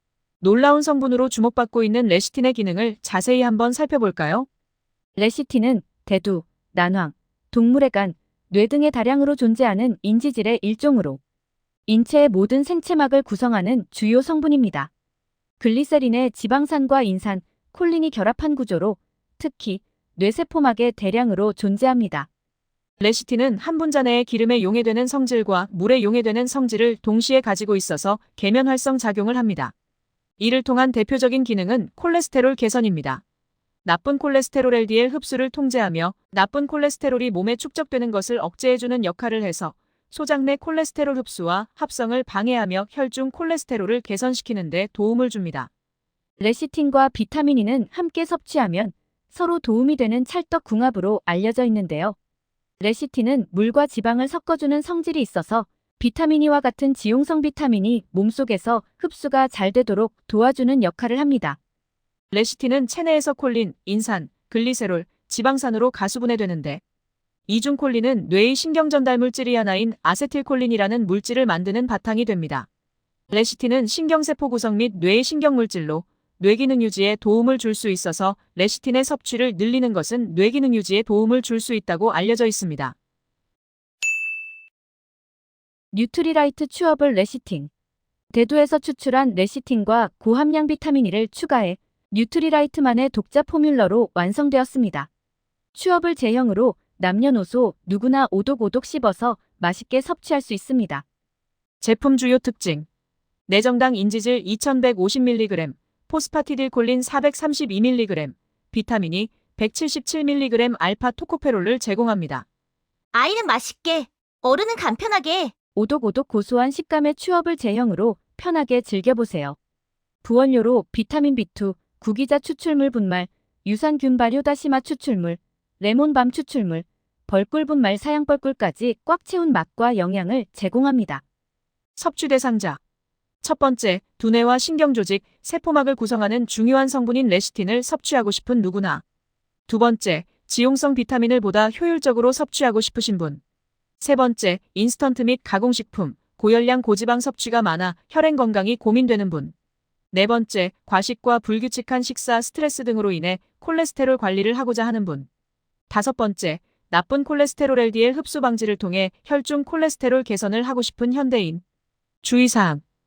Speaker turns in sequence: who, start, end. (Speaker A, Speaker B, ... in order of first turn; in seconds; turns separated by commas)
Speaker A: 0.4-4.5, Speaker B: 5.2-11.2, Speaker B: 11.9-14.9, Speaker B: 15.6-22.3, Speaker A: 23.0-29.7, Speaker A: 30.4-33.2, Speaker A: 33.8-45.7, Speaker B: 46.4-52.1, Speaker B: 52.8-61.6, Speaker A: 62.3-66.8, Speaker A: 67.5-72.7, Speaker A: 73.3-82.9, Speaker B: 85.9-87.7, Speaker B: 88.3-95.1, Speaker B: 95.7-101.0, Speaker A: 101.8-102.8, Speaker A: 103.5-112.4, Speaker C: 113.1-115.5, Speaker B: 115.8-119.5, Speaker B: 120.2-131.2, Speaker A: 132.0-132.8, Speaker A: 133.4-139.0, Speaker A: 139.7-143.4, Speaker A: 144.0-149.5, Speaker A: 150.1-155.3, Speaker A: 155.9-161.6, Speaker A: 162.2-162.8